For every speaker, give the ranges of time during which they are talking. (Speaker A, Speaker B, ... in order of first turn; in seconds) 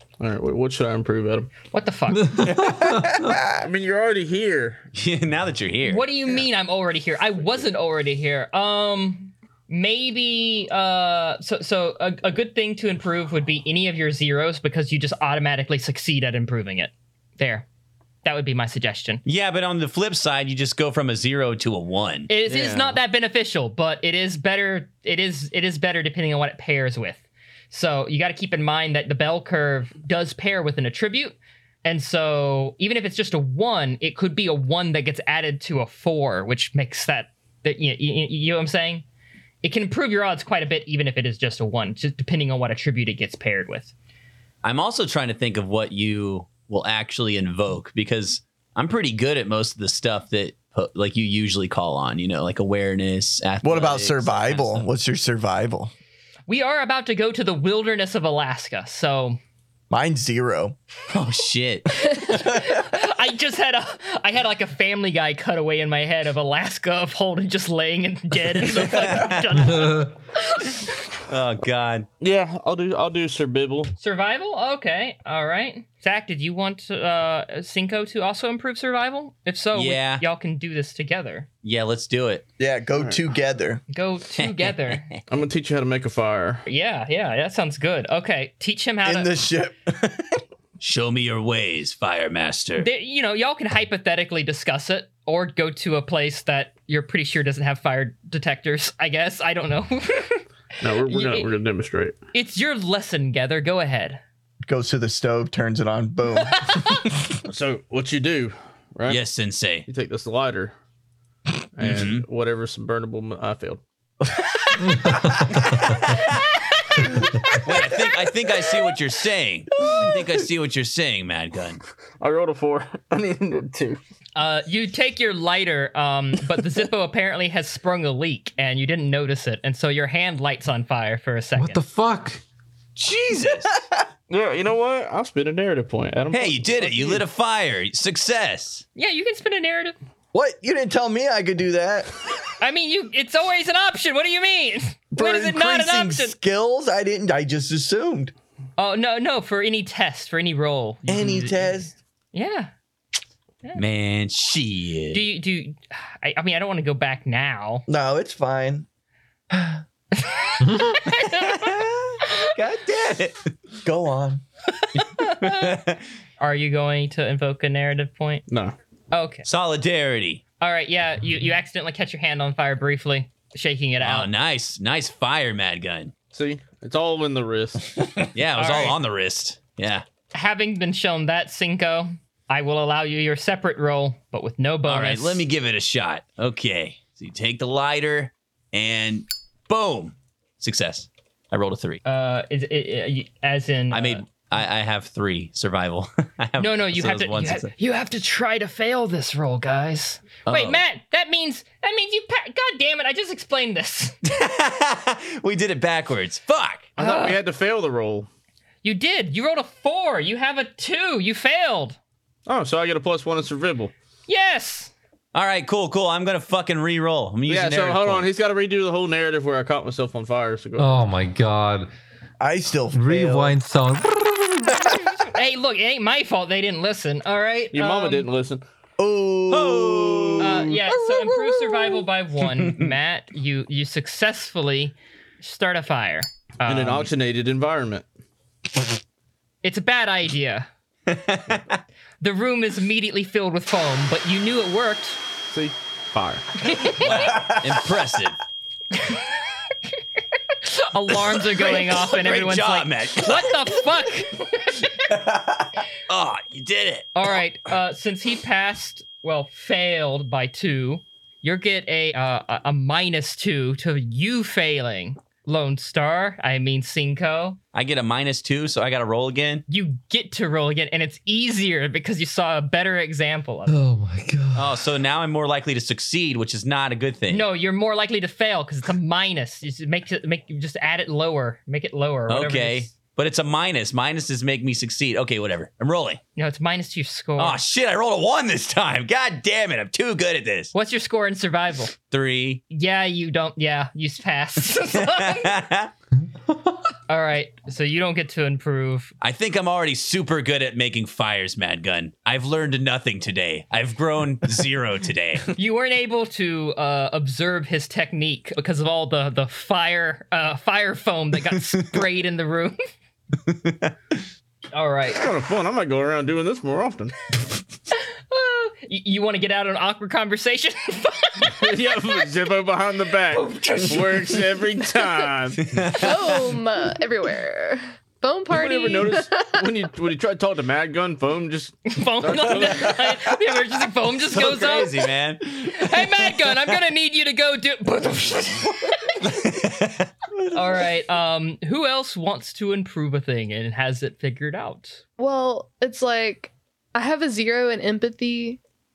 Speaker A: 0.2-1.5, 3.6-4.9, 22.5-23.0, 72.2-73.9, 83.0-83.2, 85.3-86.6, 100.8-102.2, 107.5-109.2, 109.9-110.7, 111.8-113.8, 122.2-124.0, 134.3-137.2, 168.5-168.8, 176.3-178.3, 207.0-208.3, 212.5-213.9, 217.5-221.0, 227.7-228.6, 236.7-238.1, 245.5-246.9, 315.1-317.3, 321.5-325.6, 328.5-333.0
Speaker B: 1.7-2.4, 5.9-17.7, 18.2-19.2, 22.3-39.0, 39.6-43.9, 56.5-59.4, 62.2-71.0, 74.0-81.5, 83.9-85.1, 86.7-89.3, 92.8-101.5, 102.3-104.2, 106.5-107.0, 124.4-131.8, 139.0-139.9, 142.6-146.4, 148.8-151.7, 152.3-152.7, 155.1-157.8, 160.1-161.8, 164.8-165.8, 166.4-168.4, 169.1-169.5, 170.6-174.3, 178.6-179.0, 180.3-185.4, 192.1-194.3, 196.6-204.2, 207.0-207.4, 208.8-212.0, 214.3-214.9, 225.1-228.3, 230.4-237.1, 239.6-240.7, 242.2-245.2, 246.6-247.3, 248.9-249.3, 250.6-254.9, 257.1-267.6, 269.7-273.8, 277.3-282.9, 286.4-287.6, 290.7-291.9, 292.7-295.6, 297.1-299.1, 305.6-312.8, 314.7-315.3, 318.3-321.7, 323.3-324.5, 331.9-335.0, 335.6-339.2, 340.5-345.0
Speaker C: 2.2-3.4, 69.6-70.1, 115.0-116.1, 131.6-132.4, 220.8-221.9, 222.9-224.8, 273.7-274.8
Speaker D: 4.9-6.1, 19.2-22.3, 44.6-54.9, 61.1-61.9, 68.8-69.4, 71.3-72.1, 79.7-80.2, 81.6-82.5, 84.4-85.2, 90.8-92.9, 109.1-109.9, 111.8-112.3, 116.0-116.4, 117.6-121.8, 133.0-133.7, 136.3-138.8, 153.8-155.2, 161.1-163.5, 165.2-166.0, 169.4-170.4, 174.0-176.1, 178.3-180.1, 184.8-192.0, 193.9-197.7, 200.5-200.8, 204.2-206.9, 215.3-218.3, 229.5-230.6, 241.1-241.8, 247.0-248.4, 251.3-253.8, 255.1-255.4, 255.9-257.1, 267.7-269.6, 274.6-277.5, 282.3-286.2, 287.4-290.7, 292.1-292.6, 294.9-295.9, 299.2-305.5, 313.4-313.9, 325.6-326.3, 334.2-336.5, 339.2-340.1
Speaker E: 53.6-55.9, 59.9-60.8, 62.4-62.7, 82.6-83.8, 89.0-90.4, 104.7-106.9, 140.3-142.1, 145.1-148.3, 151.1-151.9, 157.9-158.9, 163.8-164.4, 222.4-223.6, 229.0-230.6
Speaker F: 325.9-329.7, 345.2-348.6